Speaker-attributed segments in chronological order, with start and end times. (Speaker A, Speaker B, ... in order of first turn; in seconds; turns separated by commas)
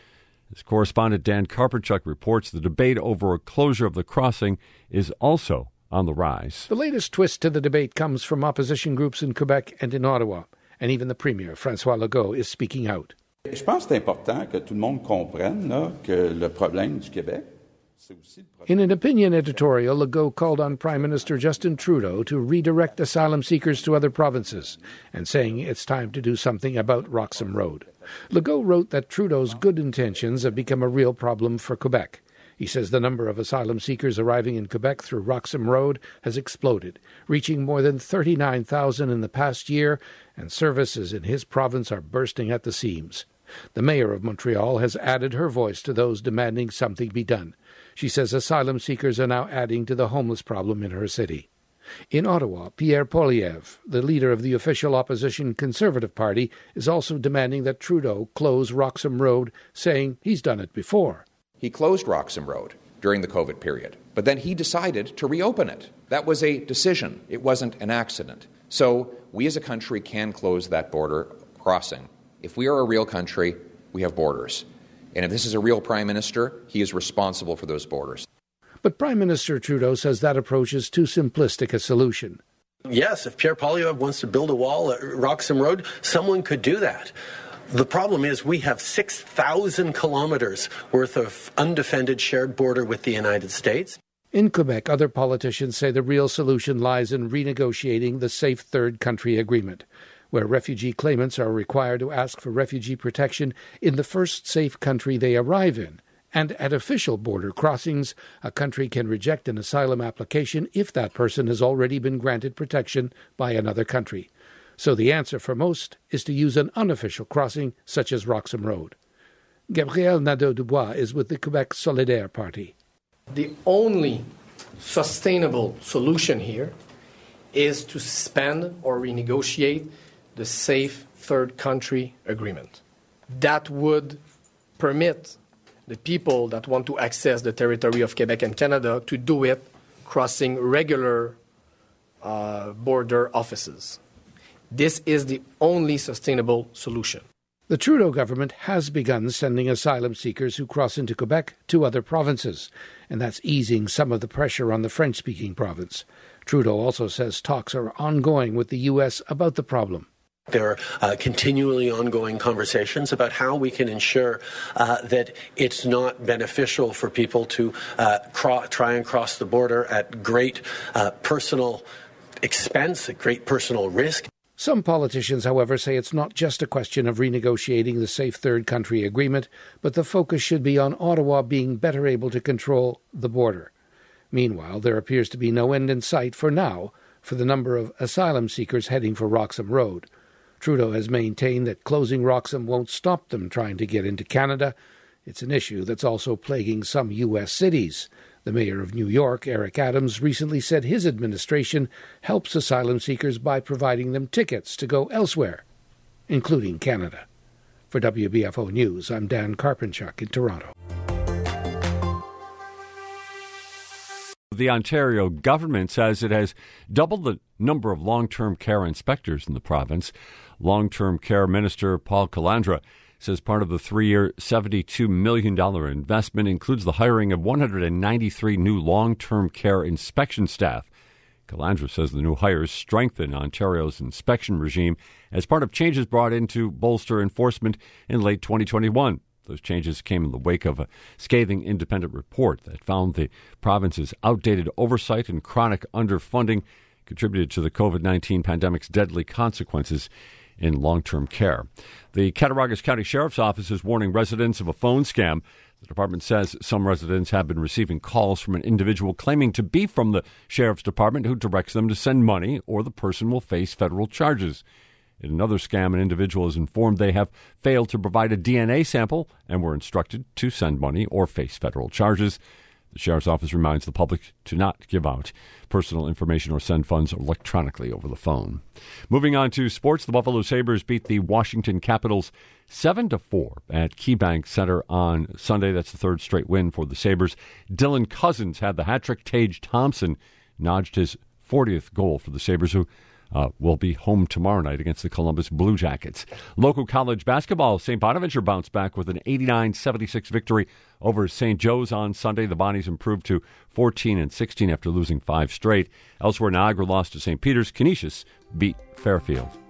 Speaker A: 0.5-6.7, Speaker B: 6.7-13.1, Speaker C: 13.5-17.4, Speaker C: 18.1-18.4, Speaker B: 18.7-51.5, Speaker B: 52.1-61.2, Speaker D: 61.6-78.2, Speaker B: 78.8-82.4, Speaker E: 82.8-87.1, Speaker E: 87.7-94.0, Speaker B: 94.3-118.9, Speaker B: 119.7-122.7, Speaker F: 123.3-124.3, Speaker F: 124.8-126.7, Speaker F: 127.5-134.2, Speaker F: 134.8-141.4, Speaker F: 142.2-144.0, Speaker F: 144.7-147.2, Speaker B: 147.7-160.1, Speaker E: 160.5-171.8, Speaker E: 172.4-174.3, Speaker B: 174.6-183.7, Speaker B: 184.3-190.1, Speaker B: 190.6-194.7, Speaker B: 195.2-205.6, Speaker B: 206.3-207.2, Speaker B: 207.9-210.7, Speaker A: 214.5-230.9, Speaker A: 231.5-250.1, Speaker A: 250.6-264.6, Speaker A: 265.2-272.4, Speaker A: 272.9-309.6